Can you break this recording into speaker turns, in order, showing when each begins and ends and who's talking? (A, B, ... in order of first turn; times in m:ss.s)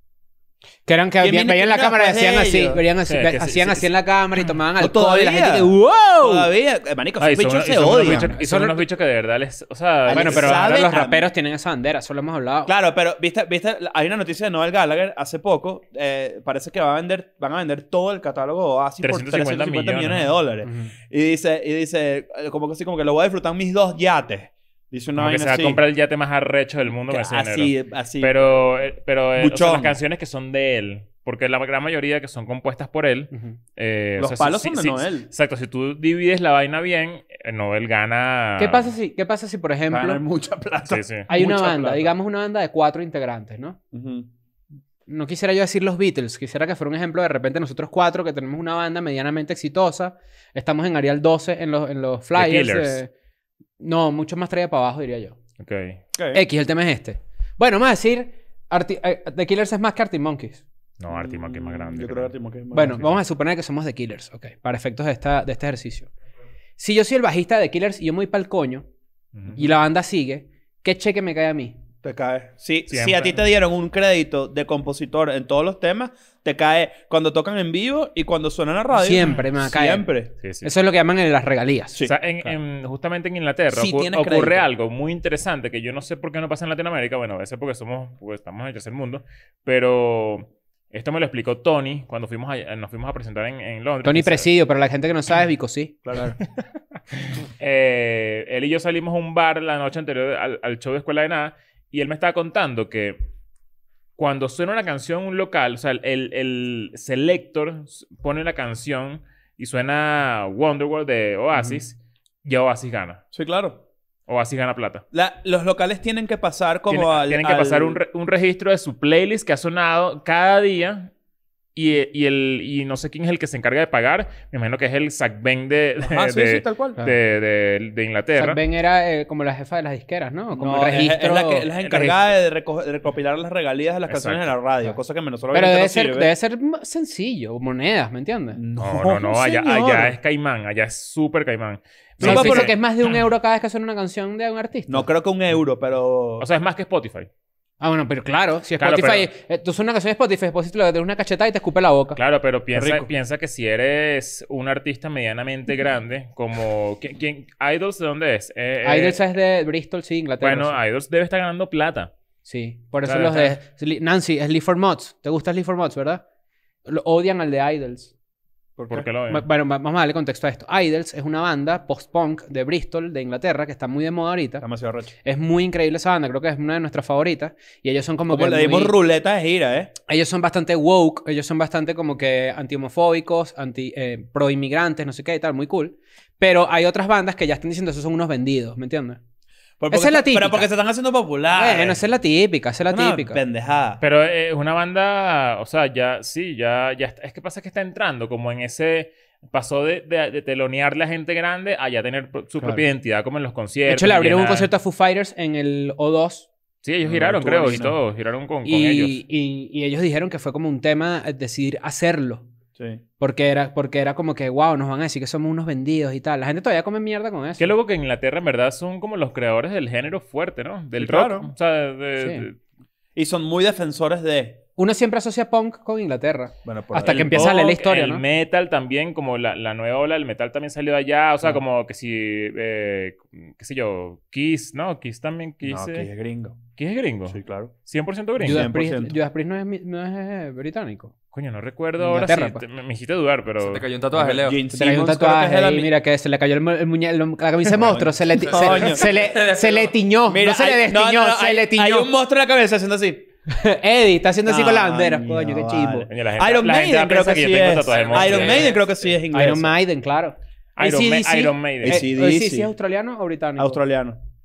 0:00.9-0:06.5 A
0:01.2-0:02.8 B
0:03.1-0:04.6 C
0:04.8-0:08.3 B
0:07.2-0:10.7 C
0:08.1-0:08.8 A
0:10.1-0:11.3 B
0:10.1-0:12.7 A
0:12.7-0:25.8 B
0:19.0-0:20.4 C
0:20.6-0:20.9 A
0:25.2-0:39.0 C
0:27.1-0:28.4 B
0:29.4-0:30.0 B
0:33.3-0:33.6 A
0:34.2-0:35.3 B
0:38.6-0:40.2 A
0:39.9-0:42.1 B
0:40.9-0:41.3 C
0:41.3-0:43.8 A
0:43.9-0:44.3 B
0:45.1-0:53.1 A
0:52.4-0:53.0 C
0:53.8-0:55.4 A
0:55.6-0:56.0 C
0:56.1-0:56.4 B
0:56.3-1:00.6 A
1:01.0-1:02.3 C
1:01.1-1:03.2 B
1:02.7-1:06.1 A
1:06.8-1:08.9 A
1:09.4-1:09.8 C
1:09.6-1:11.8 A
1:12.0-1:20.3 B
1:12.9-1:13.4 C
1:18.9-1:20.1 A
1:20.4-1:20.7 C
1:20.6-1:22.0 A
1:22.0-1:34.5 C
1:23.7-1:24.6 B
1:34.0-1:36.0 A
1:36.0-1:36.4 B
1:36.4-1:43.2 C
1:44.2-1:53.2 C
1:51.5-1:51.8 A
1:53.3-1:53.8 B
1:54.3-1:55.0 C
1:55.1-1:58.0 B
1:56.9-2:01.1 C
2:01.8-2:08.6 C
2:06.0-2:07.0 B
2:08.4-2:11.7 A
2:10.5-2:16.3 B
2:11.8-2:12.3 C
2:14.1-2:14.6 C
2:15.5-2:18.6 A
2:18.6-2:20.2 B
2:18.8-2:23.1 C
2:22.2-2:25.1 A
2:22.2-2:22.7 B
2:24.9-2:26.5 B
2:26.4-2:27.3 C
2:27.8-2:32.2 A
2:28.8-2:29.3 C
2:32.2-2:39.2 C
2:32.8-2:33.1 B
2:38.8-2:40.8 A
2:40.4-2:42.1 C
2:42.4-2:46.2 A
2:43.0-2:43.6 C
2:46.9-2:48.1 A
2:48.8-2:49.1 B
2:48.9-2:49.5 C
2:49.3-2:54.6 A
2:54.6-2:55.1 B
2:55.2-2:58.9 A
2:58.3-2:59.9 B
3:00.1-3:09.2 A
3:09.8-3:12.0 B
3:09.9-3:10.7 A
3:11.5-3:13.4 A
3:12.9-3:14.0 B
3:14.0-3:24.7 C
3:23.9-3:26.5 A
3:26.8-3:29.2 C
3:27.0-3:27.9 B
3:27.6-3:28.0 A
3:28.6-3:32.5 A
3:33.2-3:37.7 A
3:37.6-3:42.6 C
3:41.0-3:41.5 B
3:42.2-3:42.5 A
3:43.2-3:44.6 B
3:44.8-3:48.2 A
3:46.6-3:47.6 B
3:47.3-3:56.1 C
3:55.6-3:56.6 B
3:56.8-3:58.6 C
3:57.3-3:57.7 B
3:58.4-4:01.1 A
3:58.4-3:59.2 B
4:01.3-4:03.9 C
4:02.0-4:02.6 A
4:03.6-4:04.6 D
4:04.1-4:05.9 B
4:04.7-4:12.1 A
4:07.7-4:09.3 B
4:08.6-4:09.7 D
4:10.3-4:13.2 B
4:13.5-4:16.1 A
4:14.5-4:19.7 B
4:16.1-4:18.8 C
4:18.1-4:18.7 D
4:19.3-4:23.8 A
4:20.8-4:22.0 C
4:21.8-4:22.7 B
4:23.6-4:24.2 B